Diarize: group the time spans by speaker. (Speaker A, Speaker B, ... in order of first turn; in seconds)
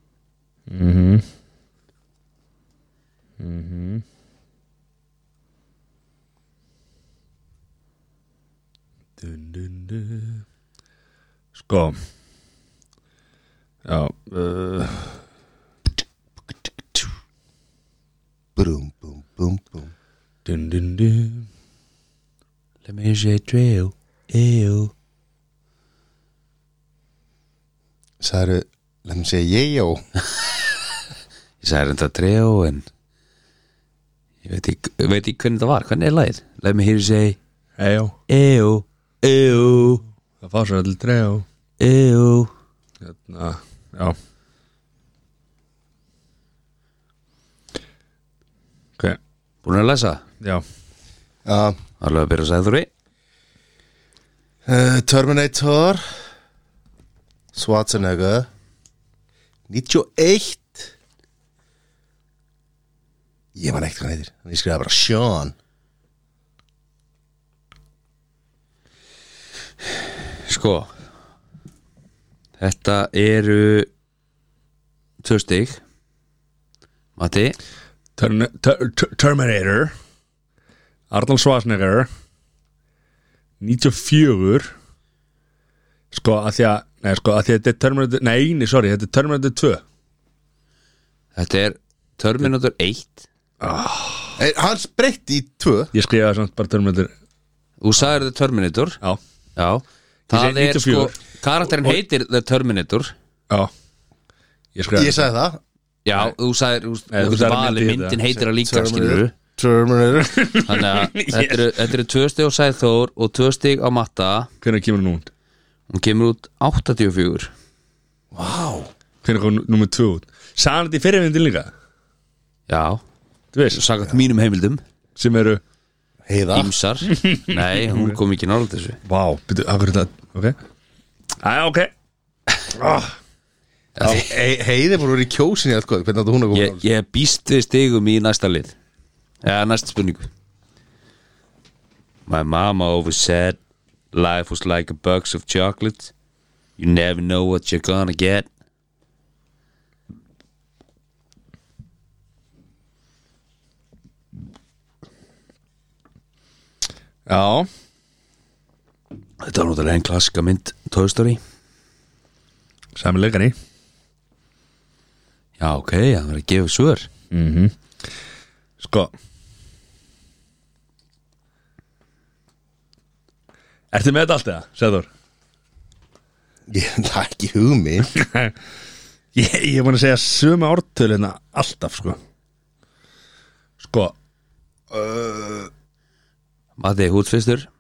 Speaker A: 0.7-1.3, 3.4-4.0, 9.2-10.4, 11.6-12.0, 13.9-15.2, 20.4-21.5, 37.8-38.2, 40.4-41.5, 43.0-44.2, 78.2-79.9, 81.1-82.1, 83.6-84.7, 86.1-89.8, 93.6-94.4, 95.9-97.1, 100.3-101.1, 104.8-105.2, 107.1-108.2, 110.3-111.9, 114.6-115.3, 119.2-121.7, 123.5-123.8, 125.2-125.6, 127.1-128.2, 129.1-130.6, 131.4-131.9, 132.7-133.2, 157.3-157.7, 163.0-163.5, 167.3-167.7, 168.8-169.1, 173.9-175.1, 178.1-178.6, 179.3-182.2, 183.8-184.2, 184.9-185.7
Speaker B: 18.6-19.9, 28.2-30.0, 51.5-51.8, 54.7-56.0, 57.5-58.5, 59.7-60.9, 63.5-65.5, 94.4-95.9, 105.0-105.6, 108.3-110.6, 118.3-118.9, 126.3-126.7, 134.0-136.8, 176.7-178.1
Speaker C: 22.9-24.9, 31.6-32.9, 34.4-37.4, 38.3-40.0, 41.8-42.5, 49.6-50.2, 52.0-52.9, 70.4-70.9, 72.6-73.9, 75.2-75.8, 77.2-77.6, 91.4-93.3, 97.8-99.0, 99.6-103.1, 106.0-109.3, 110.7-114.5, 115.9-117.5, 122.7-123.0, 123.7-124.8, 126.5-129.0, 134.0-134.3, 136.5-138.8, 139.4-140.3, 142.3-143.6, 144.1-146.1, 146.8-148.5, 159.4-161.4, 165.6-167.1, 186.8-187.7